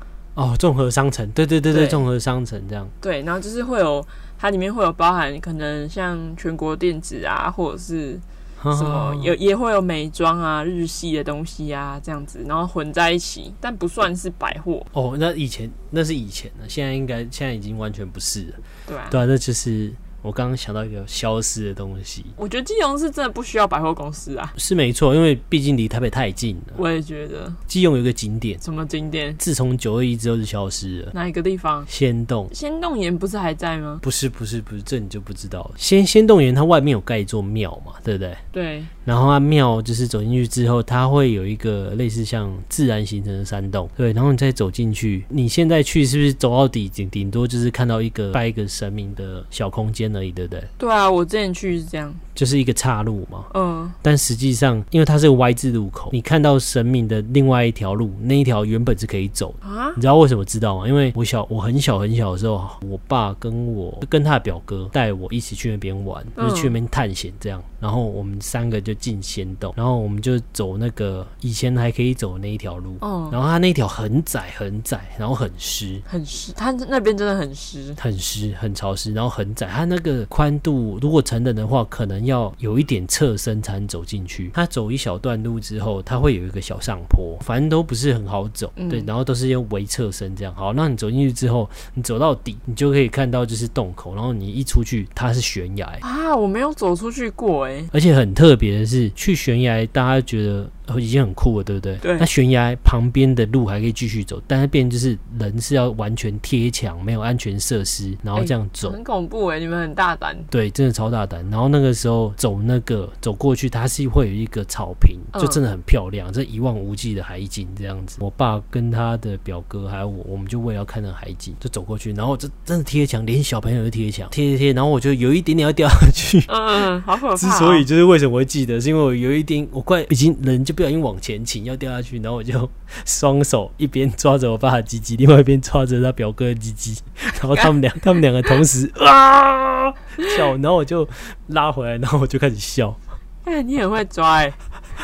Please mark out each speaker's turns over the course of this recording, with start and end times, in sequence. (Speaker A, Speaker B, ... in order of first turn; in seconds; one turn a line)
Speaker A: 0.3-2.9
Speaker B: 1.7-2.0
Speaker B: 3.0-14.9
Speaker A: 8.6-9.4
Speaker A: 14.9-22.4
Speaker B: 18.9-19.2
Speaker B: 22.4-24.6
Speaker A: 24.6-26.8
Speaker B: 26.8-27.6
Speaker A: 27.7-28.6
Speaker B: 28.6-29.4
Speaker A: 29.4-31.1
Speaker B: 31.1-31.9
Speaker A: 31.9-32.5
Speaker B: 32.5-34.0
Speaker A: 34.0-38.4
Speaker B: 38.5-38.9
Speaker A: 39.0-50.7
Speaker B: 50.8-52.2
Speaker A: 52.4-53.5
Speaker B: 53.5-54.0
Speaker A: 54.0-76.0
Speaker B: 59.6-60.0
Speaker B: 66.4-66.8
Speaker B: 73.0-73.4
Speaker B: 76.1-78.0
Speaker A: 78.0-96.0
Speaker B: 88.8-89.1
Speaker B: 96.0-97.9
Speaker A: 97.9-109.0
Speaker B: 102.0-102.3
Speaker B: 108.4-110.5
Speaker A: 110.5-143.0
Speaker B: 115.3-115.6
Speaker B: 126.5-127.9
Speaker B: 143.4-144.6